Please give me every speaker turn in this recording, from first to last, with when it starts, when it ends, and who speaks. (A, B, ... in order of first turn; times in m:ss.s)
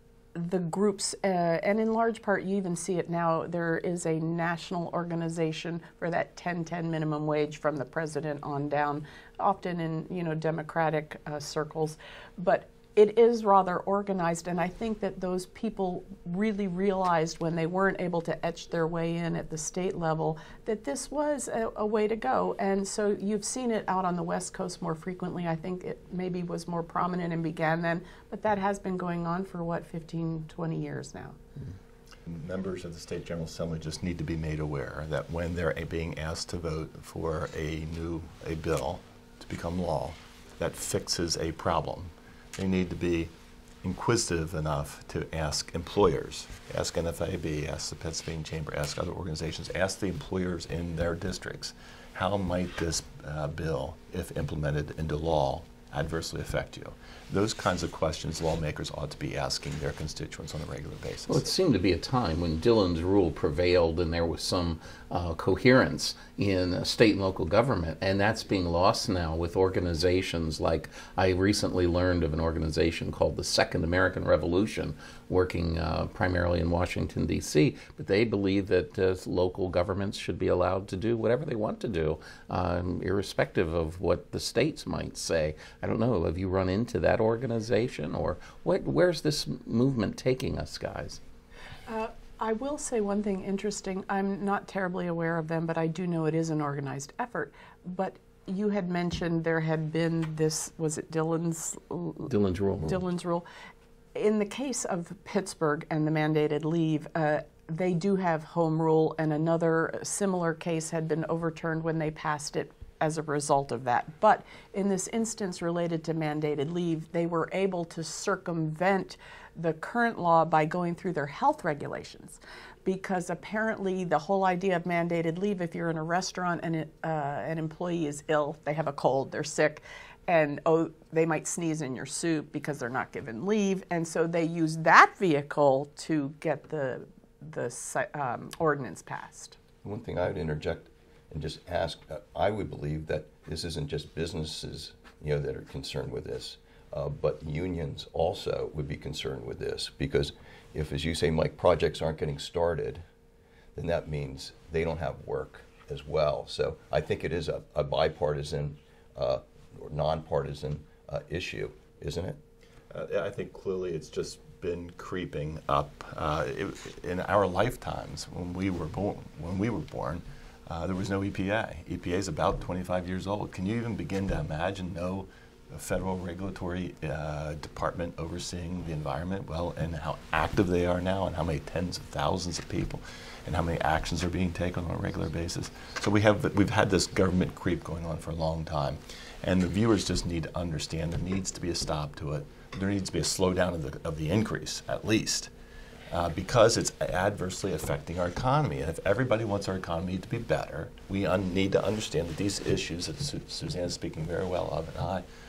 0:00.3-0:31.4 A
0:32.2-0:43.3 B
0:43.8-1:01.4 B
1:01.3-1:31.2 C
1:31.9-1:42.3 A
1:42.3-1:43.0 C
1:42.8-1:43.4 A
1:44.1-2:19.6 A
2:19.8-2:33.0 D
2:33.8-2:42.4 D
2:42.9-3:15.5 B
3:16.1-3:25.2 B